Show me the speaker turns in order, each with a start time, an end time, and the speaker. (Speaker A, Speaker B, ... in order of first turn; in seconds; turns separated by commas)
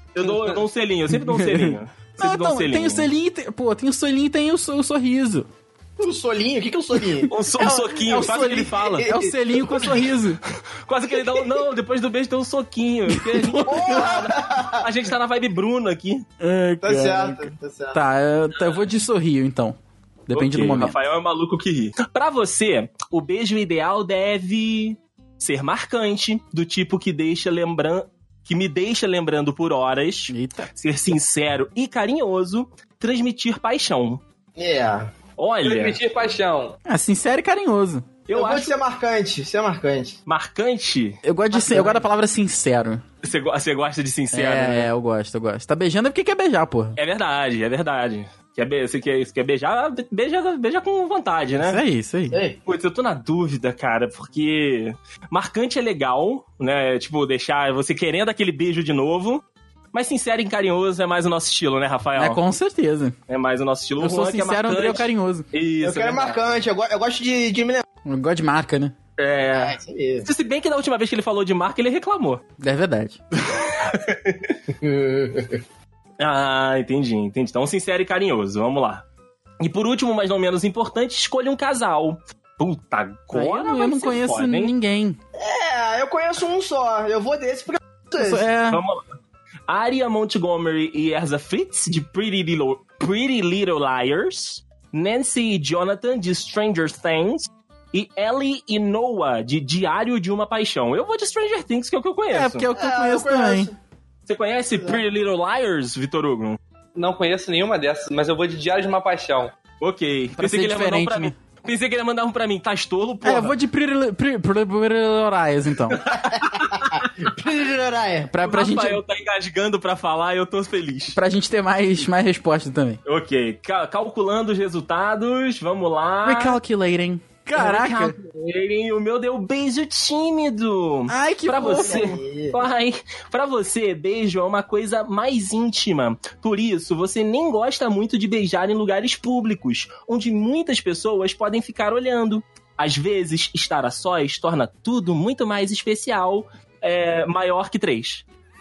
Speaker A: 0.1-3.1, Speaker B: 1.1-5.5, Speaker C: 6.0-9.9, Speaker A: 7.3-9.1, Speaker B: 7.6-10.4, Speaker A: 10.8-16.2, Speaker B: 13.1-14.1, Speaker C: 13.7-14.9, Speaker B: 16.4-21.0, Speaker C: 16.8-18.0, Speaker A: 20.3-34.2, Speaker B: 30.3-30.7, Speaker C: 34.6-35.1, Speaker A: 35.4-36.0, Speaker D: 35.6-36.8, Speaker B: 36.9-38.1, Speaker A: 38.3-38.7, Speaker C: 38.3-40.2, Speaker A: 40.3-41.2, Speaker B: 41.2-43.0, Speaker C: 41.5-42.0, Speaker A: 43.2-44.9, Speaker B: 44.3-47.0, Speaker A: 47.0-51.8, Speaker B: 51.6-52.4, Speaker C: 52.3-52.6, Speaker A: 52.7-62.4, Speaker B: 62.2-63.2, Speaker A: 63.3-66.4, Speaker B: 64.0-65.5, Speaker C: 65.8-67.8, Speaker B: 68.0-69.0, Speaker A: 69.2-72.4, Speaker C: 69.5-70.3, Speaker B: 72.6-73.2, Speaker A: 73.4-74.5, Speaker C: 74.8-75.6, Speaker A: 76.2-79.0, Speaker A: 79.6-84.7, Speaker B: 83.3-85.2, Speaker C: 85.3-88.5, Speaker B: 88.2-88.8, Speaker A: 88.7-89.0, Speaker A: 89.7-102.7, Speaker B: 102.3-103.7, Speaker C: 102.7-103.8, Speaker A: 104.3-106.6, Speaker C: 104.7-105.0, Speaker D: 107.0-109.5, Speaker A: 109.8-113.5, Speaker B: 110.4-111.3, Speaker B: 113.2-116.1, Speaker A: 116.0-117.1, Speaker C: 116.1-118.3, Speaker B: 118.3-119.0, Speaker A: 118.4-121.2, Speaker B: 121.1-123.0, Speaker A: 123.0-126.6, Speaker B: 126.2-128.2, Speaker A: 127.6-148.2, Speaker B: 131.1-132.2, Speaker C: 131.6-132.6